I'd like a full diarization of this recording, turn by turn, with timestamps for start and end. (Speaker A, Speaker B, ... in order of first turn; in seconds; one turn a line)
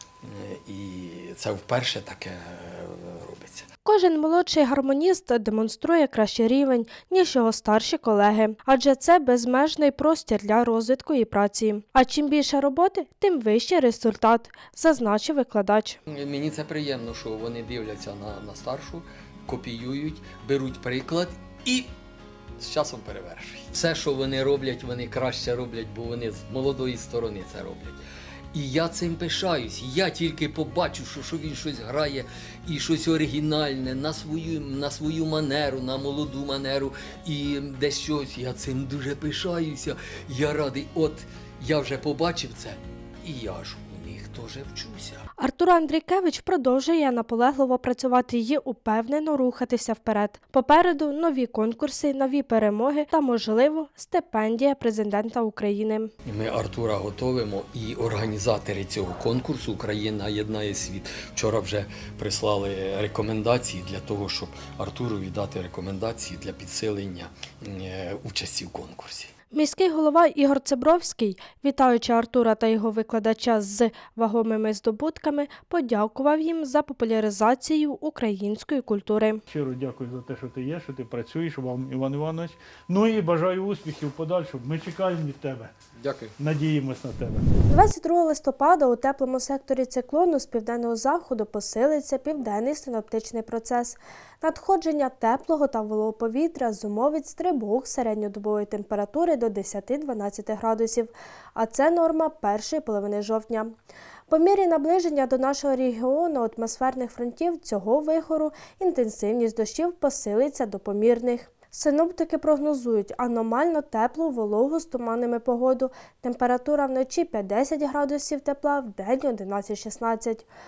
Speaker A: 0.2-3.6
Speaker B: 3.9-16.0
Speaker A: 16.1-21.9
Speaker A: 22.6-28.0
Speaker A: 28.5-45.2
Speaker B: 45.4-56.1
Speaker A: 56.2-69.3
Speaker B: 69.5-79.4
Speaker C: 79.5-85.7
Speaker A: 86.0-86.3
Speaker C: 86.4-87.5
Speaker B: 87.7-103.7
Speaker B: 104.3-120.5